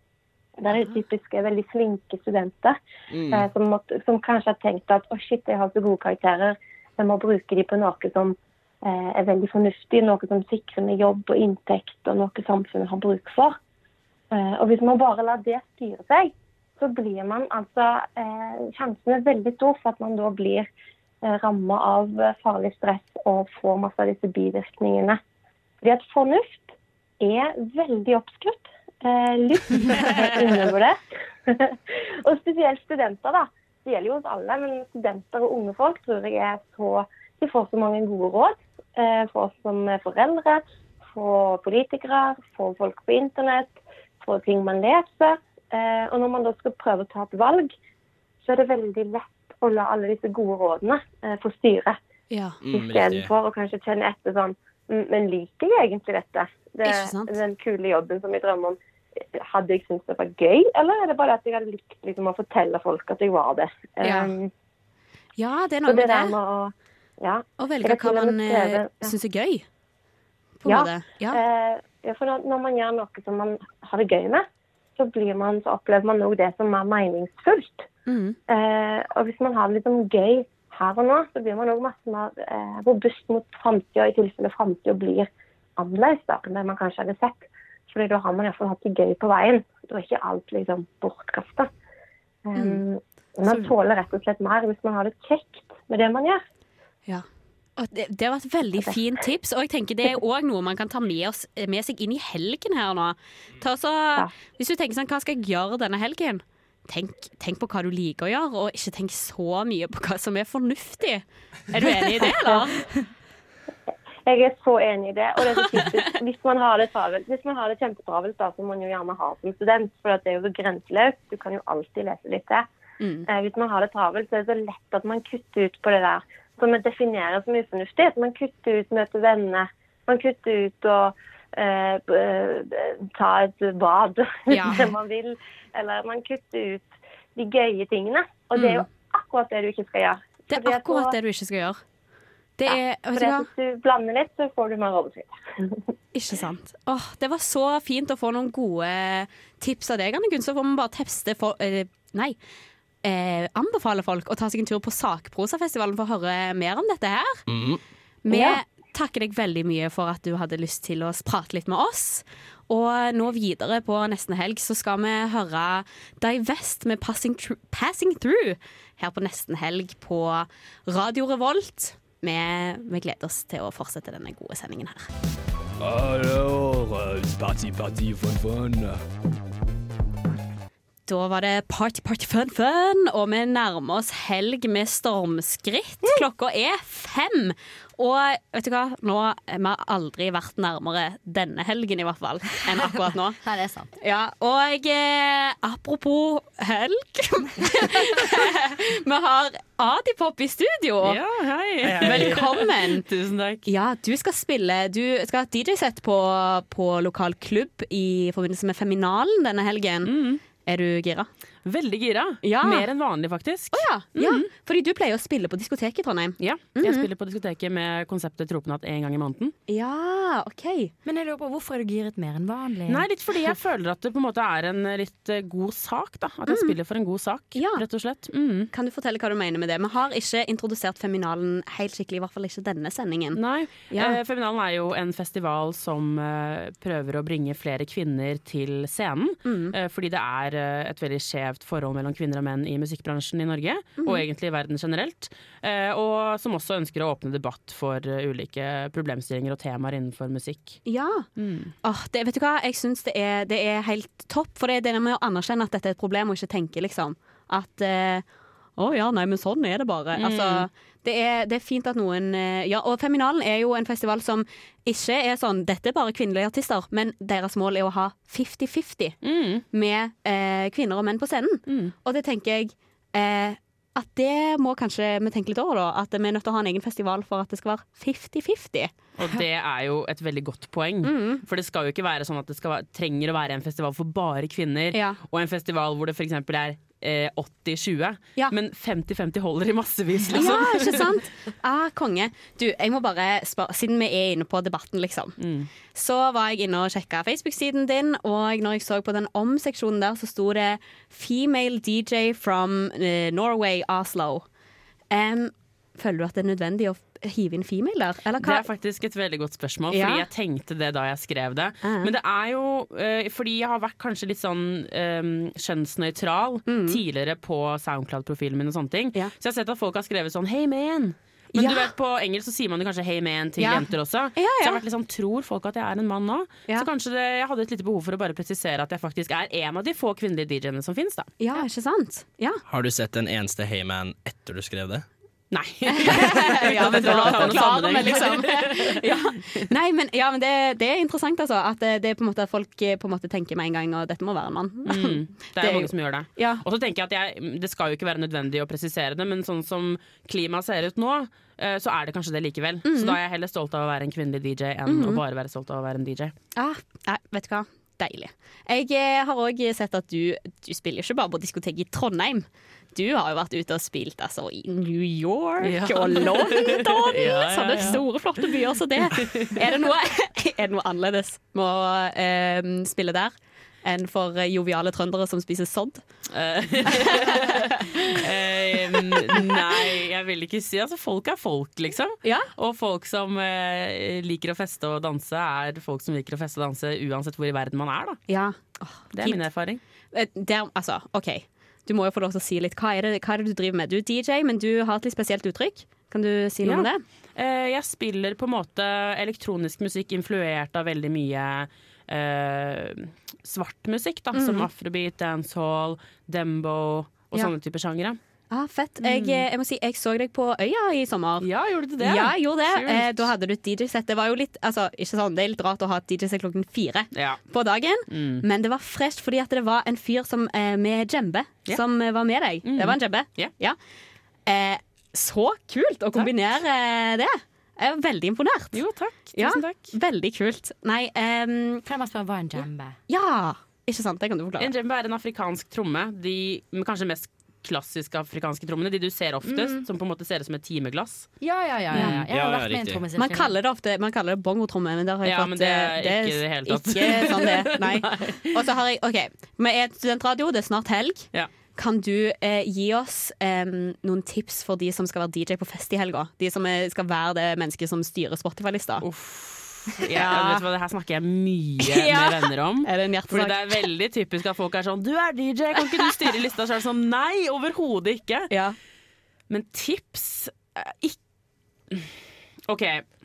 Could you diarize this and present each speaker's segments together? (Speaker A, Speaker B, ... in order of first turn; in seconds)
Speaker A: 0.6-2.8, 3.3-13.6, 14.3-20.7, 21.2-25.2, 25.8-47.7, 48.4-52.0, 52.7-58.8, 59.3-64.5, 65.8-69.1, 70.6-74.4, 75.0-77.9, 78.5-91.7, 92.4-96.4, 114.2-122.7, 123.3-141.1, 142.7-145.8, 158.3-158.6
Speaker B: 3.1-3.5, 52.6-53.3, 157.5-157.8, 201.8-202.4, 332.6-335.1, 442.2-443.0
Speaker C: 52.3-52.6, 56.8-57.3, 64.0-64.3, 65.4-66.3, 67.6-69.6, 70.6-71.4, 78.1-78.4, 92.5-92.8, 93.5-93.7, 97.8-112.8, 123.0-123.3, 134.5-134.9, 138.5-138.8, 140.5-141.8, 142.6-143.5, 146.1-152.3, 153.0-157.4, 158.2-175.1, 181.1-193.4, 194.0-201.2, 202.0-203.0, 203.7-211.3, 212.4-212.9, 213.7-217.1, 219.7-220.9, 226.5-226.7, 227.5-227.8, 228.7-234.2, 239.4-239.7, 244.0-244.2, 250.8-251.3, 251.8-258.2, 258.8-269.2, 269.7-278.9, 281.0-281.4, 284.9-285.2, 290.3-295.4, 295.9-304.4, 305.1-308.6, 309.9-310.3, 311.8-312.1, 316.6-317.0, 321.5-321.9, 323.6-324.8, 331.4-332.6, 335.9-346.6, 352.8-353.2, 354.9-355.2, 356.6-373.3, 373.8-376.1, 376.9-377.6, 382.2-382.5, 388.3-389.5, 390.1-397.0, 404.3-404.7, 408.5-411.5, 412.0-423.8, 424.5-428.8, 429.4-431.8, 433.1-434.7, 441.9-442.2, 443.2-459.1, 460.1-460.6, 461.8-463.9, 468.5-468.8
Speaker D: 175.8-179.0
Speaker E: 193.4-193.9, 221.0-223.5, 431.8-432.9, 439.4-439.8, 441.4-443.5
Speaker F: 201.0-203.7, 210.0-210.4, 211.6-214.5, 216.4-219.5, 222.9-228.7, 233.3-250.8, 251.4-251.7, 260.1-260.7, 269.2-269.6, 271.7-271.9, 279.2-291.2, 295.4-295.7, 308.4-331.3, 335.5-339.4, 344.8-356.3, 365.6-368.5, 369.1-369.8, 376.3-388.2, 389.1-389.8, 396.6-408.2, 409.0-409.4, 411.4-413.3, 417.1-417.4, 418.1-418.4, 422.6-423.5, 428.7-429.9, 434.6-441.3, 445.2-448.5, 459.0-468.5, 469.5-471.2, 472.7-473.1